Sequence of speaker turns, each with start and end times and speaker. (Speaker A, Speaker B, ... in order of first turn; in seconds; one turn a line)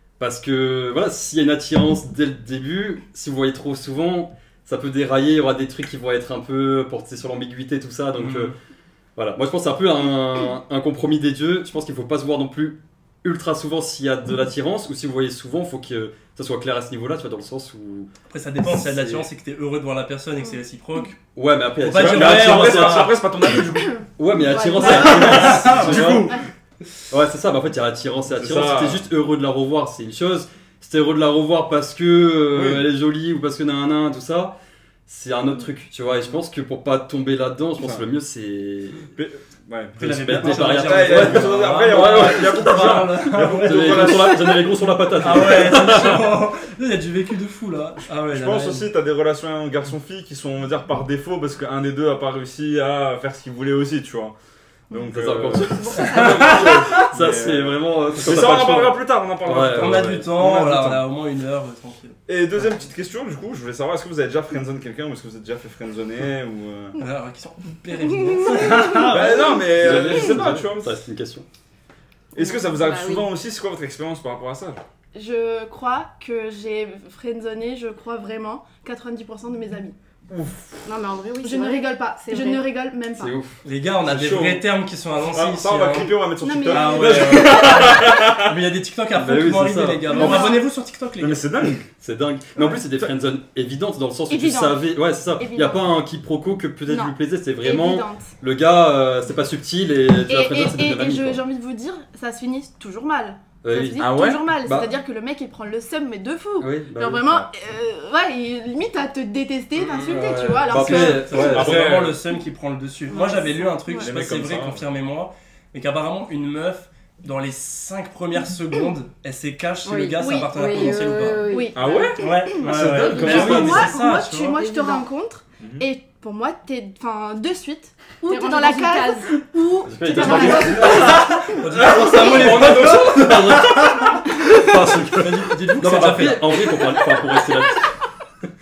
Speaker A: 0.2-8.5
Speaker B: 8.2-8.5
Speaker A: 9.2-18.1
Speaker C: 18.3-21.2
Speaker A: 18.6-19.3
Speaker A: 21.4-23.2
Speaker C: 21.8-23.2
Speaker B: 21.9-24.1
Speaker A: 24.2-26.4
Speaker D: 24.5-25.1
Speaker B: 24.7-26.4
Speaker E: 24.8-25.5
Speaker C: 24.8-26.3
Speaker A: 27.1-34.5
Speaker B: 28.4-29.1
Speaker B: 32.5-32.9
Speaker A: 35.1-39.1
Speaker B: 37.8-38.1
Speaker B: 39.1-44.6
Speaker C: 40.0-44.4
Speaker A: 40.0-46.4
Speaker C: 45.2-48.9
Speaker B: 48.3-54.4
Speaker B: 54.9-60.8
Speaker A: 55.1-61.0
Speaker D: 55.7-56.5
Speaker C: 56.1-57.1
Speaker C: 59.6-62.2
Speaker B: 62.3-67.0
Speaker C: 67.0-69.7
Speaker E: 68.3-69.2
Speaker B: 69.0-70.9
Speaker A: 69.7-71.5
Speaker B: 72.3-74.8
Speaker D: 72.4-73.3
Speaker E: 75.1-80.0
Speaker B: 80.3-80.8
Speaker D: 80.8-82.7
Speaker E: 81.4-83.3
Speaker A: 83.2-83.6
Speaker C: 83.6-86.2
Speaker B: 84.0-84.7
Speaker B: 85.3-88.6
Speaker E: 86.4-88.2
Speaker C: 86.7-91.4
Speaker A: 89.1-90.5
Speaker E: 90.1-90.6
Speaker B: 91.2-91.9
Speaker A: 92.0-101.4
Speaker E: 94.3-95.9
Speaker E: 96.9-98.3
Speaker E: 100.3-111.5
Speaker A: 103.6-104.9
Speaker B: 104.0-104.4
Speaker A: 106.6-107.5
Speaker A: 109.9-111.9
Speaker C: 110.7-121.7
Speaker B: 111.0-112.2
Speaker D: 113.1-113.5
Speaker E: 113.2-114.1
Speaker B: 114.0-114.8
Speaker D: 119.8-122.2
Speaker E: 120.2-131.6
Speaker B: 121.8-123.9
Speaker C: 122.2-124.6
Speaker A: 123.1-123.9
Speaker D: 124.5-125.0
Speaker B: 125.6-125.8
Speaker D: 128.3-129.4
Speaker A: 129.8-137.9
Speaker D: 130.1-131.2
Speaker C: 130.3-134.2
Speaker B: 131.9-133.1
Speaker C: 135.1-136.8